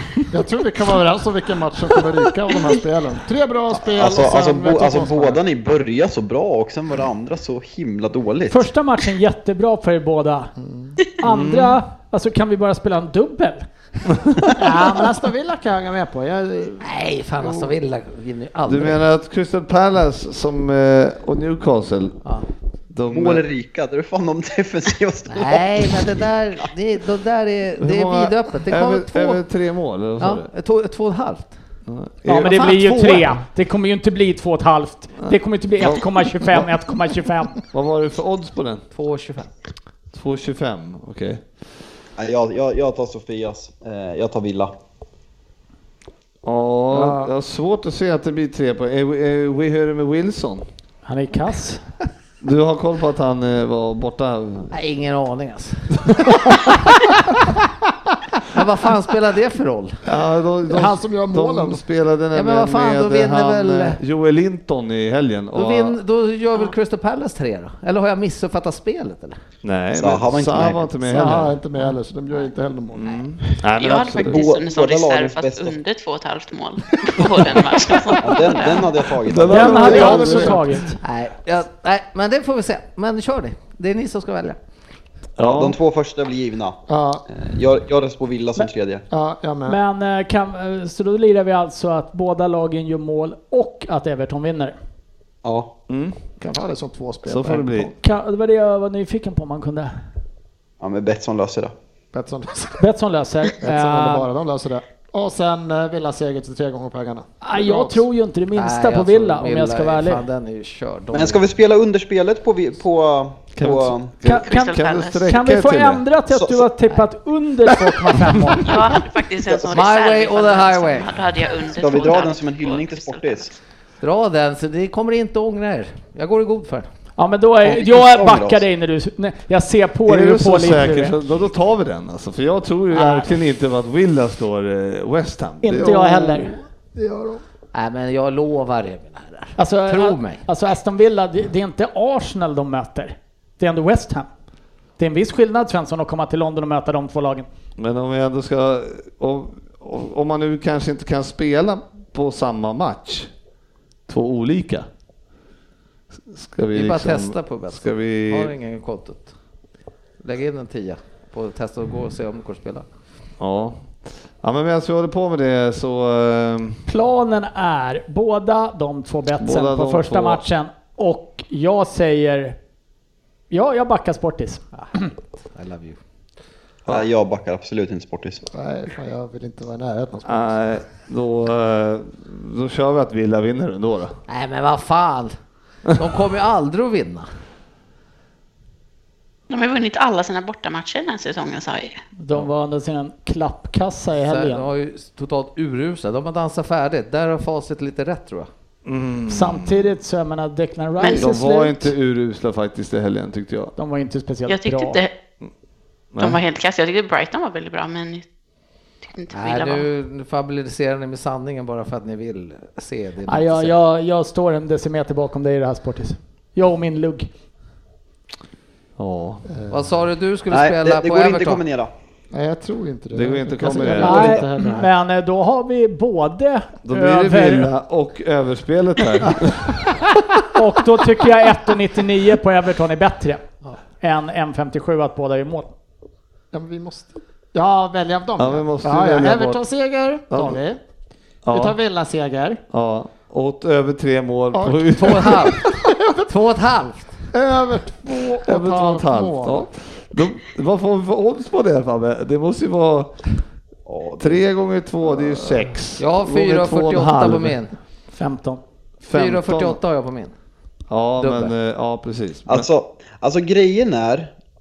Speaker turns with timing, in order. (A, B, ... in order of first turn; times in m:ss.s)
0:00.3-0:05.4 A
0:03.8-0:08.7 B
0:08.5-0:10.5 C
0:10.6-0:11.0 A
0:11.2-0:13.6 C
0:11.2-0:11.8 D
0:14.6-0:17.7 A
0:14.6-0:15.0 C
0:16.8-0:19.0 E
0:18.7-0:22.2 D
0:22.9-0:23.4 D
0:23.1-0:26.1 B
0:25.3-0:29.4 E
0:27.8-0:30.5 D
0:30.2-0:31.5 E
0:31.9-0:33.3 D
0:32.3-0:37.6 C
0:35.2-0:36.7 D
0:37.7-0:38.8 D
0:38.9-0:39.5 E
0:40.1-0:41.4 D
0:42.2-0:44.7 B
0:46.4-0:50.6 D
0:46.9-0:47.3 A
0:51.1-0:51.8 C
0:52.4-0:54.7 D
0:54.7-0:56.3 E
0:58.5-1:00.0 E
1:00.0-1:06.0 D
1:00.7-1:01.8 A
1:02.3-1:04.0 E
1:05.5-1:09.4 E
1:09.6-1:11.6 D
1:09.9-1:11.0 B
1:11.1-1:13.2 A
1:13.0-1:14.4 D
1:13.8-1:19.0 F
1:14.1-1:15.8 B
1:18.2-1:20.3 B
1:19.2-1:20.8 D
1:19.5-1:21.0 C
1:19.7-1:20.8 A
1:21.0-1:24.6 E
1:25.4-1:25.8 D
1:25.4-1:29.0 B
1:26.9-1:27.2 A
1:29.1-1:29.8 A
1:29.7-1:34.8 C
1:35.4-1:35.7 B
1:35.9-1:36.2 D
1:36.4-1:37.9 A
1:37.2-1:37.9 D
1:38.0-1:40.0 C
1:40.8-1:41.7 B
1:42.1-1:42.8 A
1:42.8-1:44.3 C
1:43.6-1:48.0 A
1:47.4-1:50.2 C
1:48.6-1:51.5 E
1:51.1-1:54.1 B
1:53.6-1:56.0 D
1:54.3-1:58.8 C
1:54.3-1:55.3 F
1:56.3-1:56.6 B
1:58.6-2:03.4 F
1:59.7-2:01.1 E
2:01.8-2:03.6 B
2:04.0-2:06.9 E
2:07.2-2:11.2 C
2:07.6-2:08.6 B
2:10.1-2:16.3 D
2:15.6-2:16.6 C
2:15.7-2:17.4 A
2:17.7-2:20.4 E
2:19.6-2:24.3 C
2:25.0-2:27.5 C
2:27.8-2:33.3 D
2:34.1-2:34.9 D
2:36.1-2:38.5 D
2:36.7-2:39.3 E
2:40.2-2:42.9 E
2:43.4-2:46.8 D
2:46.9-2:52.6 C
2:49.4-2:50.4 D
2:53.5-2:54.6 C
2:54.8-2:56.0 E
2:56.9-2:58.4 B
2:58.5-3:00.6 A
3:00.2-3:04.2 D
3:04.3-3:05.3 E
3:05.9-3:07.3 E
3:09.5-3:12.0 F
3:12.2-3:14.7 C
3:14.2-3:18.5 E
3:18.8-3:19.8 D
3:19.3-3:21.9 C
3:21.1-3:23.7 D
3:23.8-3:25.0 C
3:24.5-3:25.1 F
3:26.1-3:26.4 D
3:26.2-3:28.2 F
3:29.1-3:29.9 F
3:29.3-3:33.8 E
3:33.3-3:37.3 C
3:39.0-3:39.5 D
3:39.5-3:39.8 A
3:39.7-3:41.6 E
3:40.5-3:41.9 B
3:42.3-3:44.9 A
3:43.1-3:44.4 D
3:44.0-3:47.7 C
3:44.1-3:44.4 B
3:46.8-3:49.8 D
3:50.5-3:53.4 C
3:54.0-3:55.7 C
3:56.5-4:00.8 A
3:58.4-3:59.6 D
4:00.3-4:00.6 D
4:01.4-4:01.8 D
4:01.5-4:02.6 A
4:02.7-4:05.6 D
4:04.5-4:06.3 A
4:05.0-4:05.7 E
4:06.3-4:07.3 E
4:07.3-4:09.6 A
4:08.4-4:13.2 D
4:13.9-4:14.4 B
4:14.2-4:17.6 D
4:16.0-4:17.8 E
4:18.2-4:18.6 C
4:19.0-4:19.8 D
4:19.1-4:20.3 E
4:20.9-4:22.7 D
4:21.2-4:21.5 E
4:22.5-4:24.3 B